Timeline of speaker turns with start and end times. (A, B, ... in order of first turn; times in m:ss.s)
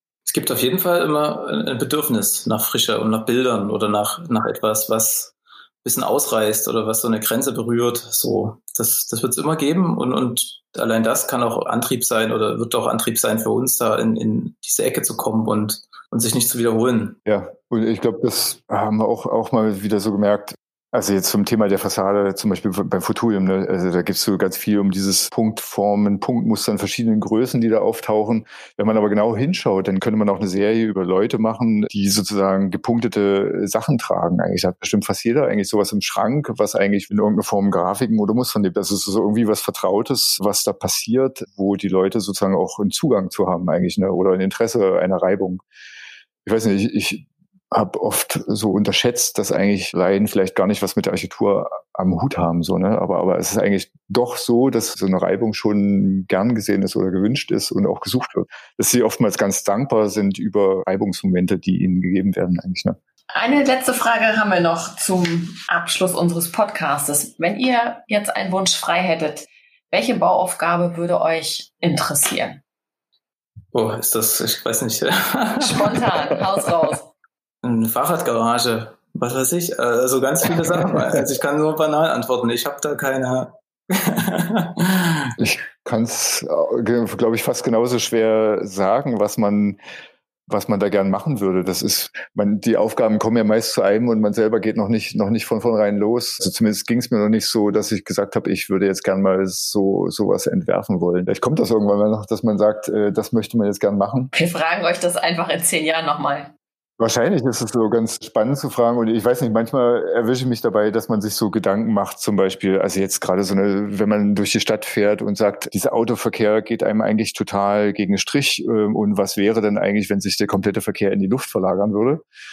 0:00.2-0:17.2 A
0:17.2-0:45.6 B
0:46.4-1:03.0 B
1:03.3-1:12.6 C
1:13.7-1:16.2 A
1:15.6-1:17.1 C
1:17.6-1:25.3 A
1:25.4-1:29.8 B
1:30.5-1:44.3 B
1:44.3-1:46.5 C
1:47.0-2:02.2 B